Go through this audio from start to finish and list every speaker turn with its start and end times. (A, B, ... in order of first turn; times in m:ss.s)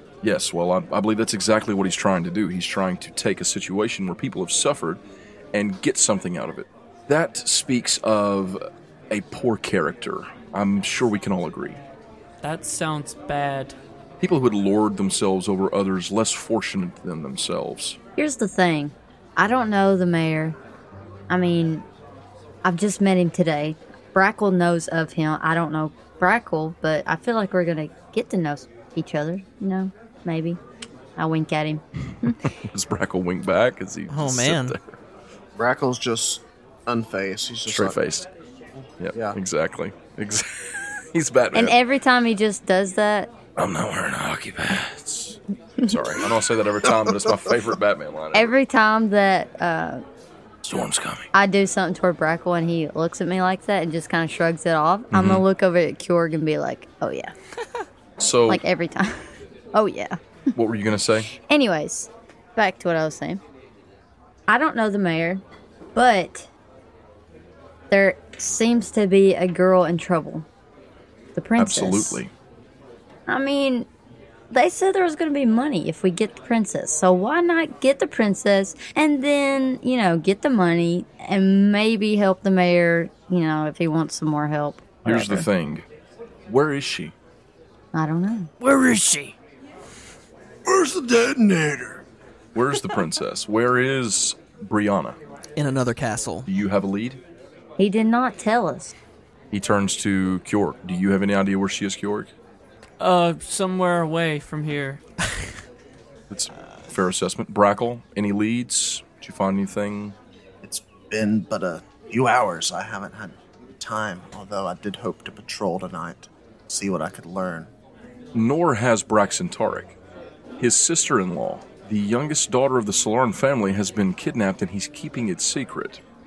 0:00.2-0:05.0 A
0:05.5-0:11.8 A
0:12.4-0:13.7 B
0:14.2-0:18.0 A
0:18.2-0:20.6 C
0:21.3-0:21.8 C
0:22.6-0:30.6 C
0:31.2-0:32.4 C
0:32.5-0:35.0 A
0:34.1-0:34.8 D
0:35.6-0:38.0 E
0:37.7-0:38.3 A
0:39.0-0:41.8 A
0:41.5-0:43.3 C
0:43.6-0:48.5 A
0:48.3-0:50.0 C
0:50.6-0:51.3 A
0:51.3-0:57.3 C
0:55.1-0:55.4 A
0:58.2-0:58.6 A
0:58.5-1:00.2 C
1:00.5-1:01.3 A
1:01.3-1:03.4 C
1:04.5-1:05.4 C
1:05.9-1:06.5 C
1:07.9-1:10.4 C
1:11.4-1:12.2 C
1:11.6-1:12.3 A
1:13.3-1:13.9 C
1:14.5-1:25.4 C
1:25.0-1:25.8 A
1:26.5-1:27.1 A
1:27.9-1:28.5 C
1:28.6-1:29.3 B
1:28.6-1:29.2 D
1:30.6-1:32.0 E
1:32.5-1:35.2 A
1:35.6-1:36.5 D
1:36.4-1:37.2 A
1:37.8-1:38.9 C
1:39.5-1:42.3 A
1:43.0-1:45.0 B
1:46.3-1:50.2 A
1:50.6-1:57.7 E
1:58.3-2:00.0 A
2:00.6-2:06.0 A